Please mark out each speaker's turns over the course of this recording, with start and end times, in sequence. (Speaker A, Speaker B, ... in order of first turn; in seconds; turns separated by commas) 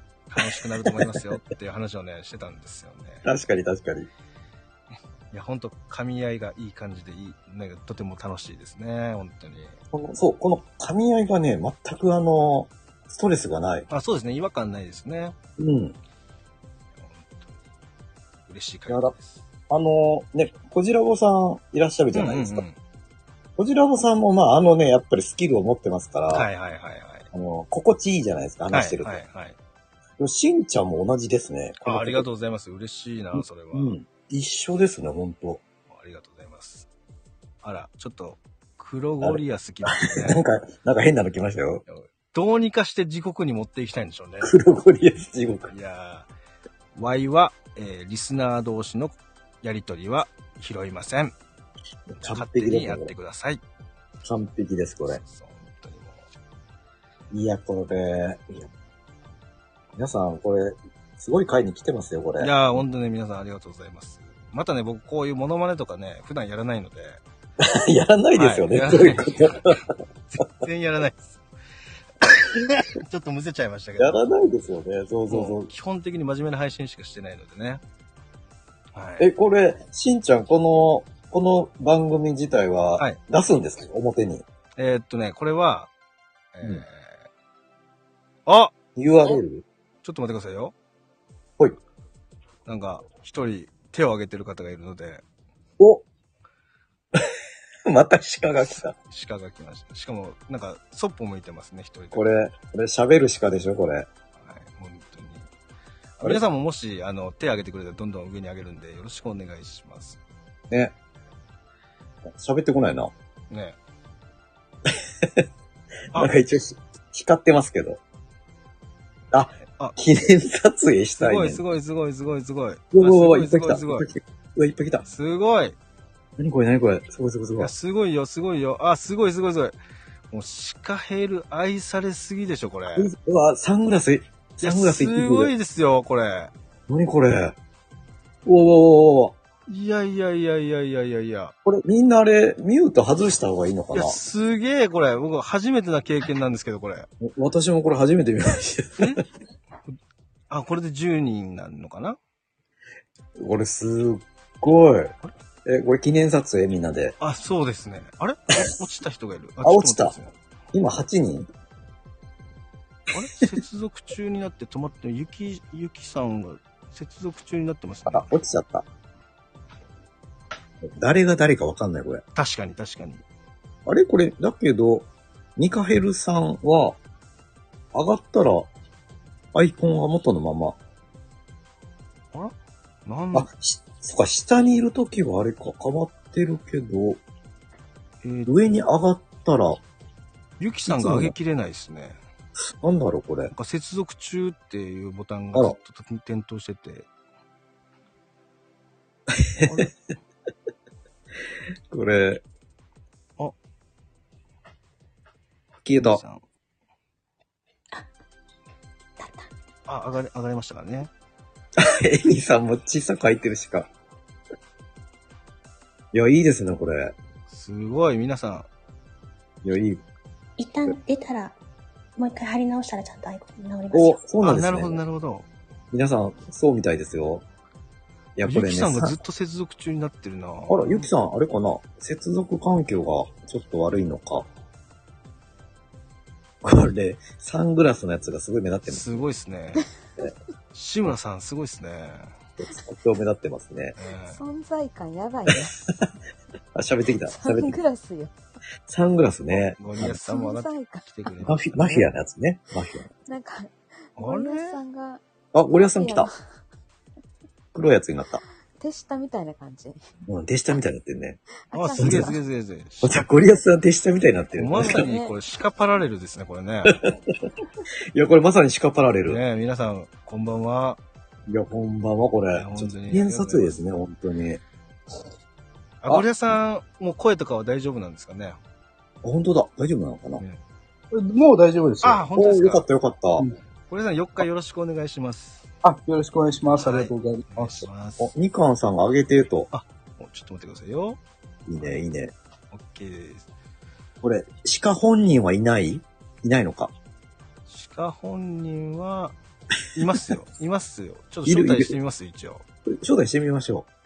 Speaker A: 0.3-3.2, Speaker B: 0.4-1.2, Speaker B: 3.2-4.1, Speaker A: 5.3-9.8, Speaker B: 9.9-13.9, Speaker A: 13.9-15.3, Speaker B: 15.6-15.9, Speaker A: 17.0-17.6, Speaker A: 18.5-19.4, Speaker B: 18.9-19.1, Speaker B: 19.7-22.6, Speaker A: 22.1-22.8, Speaker B: 23.6-26.5, Speaker A: 26.3-27.3, Speaker B: 27.3-29.2, Speaker A: 28.7-29.6, Speaker B: 30.2-32.2, Speaker A: 31.8-33.9, Speaker B: 33.3-35.6, Speaker A: 35.9-36.9, Speaker A: 37.6-40.4, Speaker B: 39.2-41.8, Speaker A: 41.9-44.5, Speaker B: 44.4-45.7, Speaker A: 45.7-46.3, Speaker A: 47.0-51.3, Speaker B: 52.1-53.1, Speaker A: 52.2-53.6, Speaker B: 54.2-55.2, Speaker A: 55.1-56.2, Speaker B: 57.3-58.7, Speaker B: 60.0-62.8, Speaker A: 62.4-67.2, Speaker B: 67.6-69.8, Speaker A: 68.3-71.4, Speaker A: 72.2-74.2, Speaker B: 74.0-75.7, Speaker A: 75.3-77.8, Speaker A: 78.9-79.3, Speaker B: 79.2-84.4, Speaker A: 84.8-85.9, Speaker A: 86.5-87.2, Speaker A: 88.5-88.7, Speaker B: 89.0-89.6, Speaker A: 90.0-90.7, Speaker A: 92.7-95.2, Speaker B: 95.8-96.0, Speaker B: 97.8-98.9, Speaker A: 98.6-102.3, Speaker B: 102.1-104.1, Speaker A: 104.4-105.5, Speaker A: 106.2-110.2, Speaker B: 112.3-113.1, Speaker A: 113.5-113.8, Speaker B: 114.8-115.4, Speaker B: 116.1-118.0, Speaker B: 119.3-121.6, Speaker A: 119.6-120.0, Speaker A: 121.2-124.1, Speaker B: 122.9-125.0, Speaker A: 125.0-125.8, Speaker B: 126.4-127.7, Speaker A: 127.6-129.8, Speaker A: 130.3-133.1, Speaker B: 132.9-135.5, Speaker A: 134.6-136.5, Speaker B: 136.9-137.6, Speaker B: 138.4-139.3, Speaker A: 139.7-141.5, Speaker B: 141.6-144.2, Speaker A: 143.9-147.1, Speaker B: 147.2-149.2, Speaker A: 149.0-149.2, Speaker A: 150.5-152.2, Speaker B: 153.4-155.1, Speaker B: 155.6-157.2, Speaker A: 157.2-160.3, Speaker B: 159.6-160.1, Speaker B: 160.7-161.5, Speaker A: 163.1-168.3, Speaker B: 168.1-168.8, Speaker B: 170.8-172.2, Speaker A: 172.3-173.2, Speaker B: 173.8-177.0, Speaker B: 177.9-178.7, Speaker B: 179.5-180.8, Speaker A: 183.1-183.5, Speaker B: 183.3-187.2, Speaker A: 188.2-188.8, Speaker B: 188.4-189.8, Speaker A: 190.6-192.2, Speaker B: 190.9-191.3, Speaker B: 192.7-193.5, Speaker A: 193.5-197.1, Speaker B: 199.3-199.9, Speaker A: 199.6-199.9, Speaker B: 201.9-202.4, Speaker B: 205.8-206.2, Speaker A: 205.9-206.4, Speaker C: 209.2-209.5, Speaker A: 209.9-211.1, Speaker B: 211.8-213.9, Speaker B: 216.1-217.1, Speaker A: 217.5-218.7, Speaker B: 219.6-220.0, Speaker C: 220.6-221.5, Speaker C: 222.2-224.2, Speaker B: 223.9-225.0, Speaker A: 224.4-225.5, Speaker B: 225.9-227.4, Speaker B: 228.3-229.2, Speaker A: 228.4-231.1, Speaker B: 230.7-234.5, Speaker B: 236.6-239.2, Speaker A: 238.9-239.9, Speaker A: 240.7-242.3, Speaker B: 242.6-243.9, Speaker A: 244.0-244.4, Speaker D: 244.3-245.8, Speaker B: 245.5-246.1, Speaker B: 246.7-247.8, Speaker D: 247.2-248.3, Speaker B: 248.9-250.1, Speaker A: 249.5-252.1, Speaker D: 250.0-251.3, Speaker B: 251.4-253.1, Speaker D: 253.2-255.2, Speaker A: 254.2-254.8, Speaker B: 255.5-256.3, Speaker D: 255.7-256.3, Speaker B: 257.7-258.4, Speaker D: 258.8-260.0, Speaker B: 260.2-261.4, Speaker D: 261.7-262.4, Speaker A: 261.7-263.2, Speaker B: 262.0-262.3, Speaker B: 263.0-265.1, Speaker A: 264.6-267.0, Speaker D: 264.8-265.3, Speaker B: 266.9-267.3, Speaker B: 268.1-269.4, Speaker A: 269.2-271.0, Speaker B: 271.5-274.6, Speaker A: 272.5-273.8, Speaker A: 276.0-278.6, Speaker B: 279.2-280.4, Speaker E: 281.1-282.3, Speaker A: 282.0-282.8, Speaker B: 282.3-283.4, Speaker A: 283.9-285.7, Speaker E: 285.8-287.5, Speaker A: 286.8-288.3, Speaker B: 287.6-289.7, Speaker A: 289.7-291.2, Speaker B: 291.6-292.3, Speaker A: 292.7-293.4, Speaker B: 294.2-296.9, Speaker A: 297.7-299.3, Speaker A: 299.9-302.6, Speaker B: 301.4-301.9, Speaker B: 302.9-303.9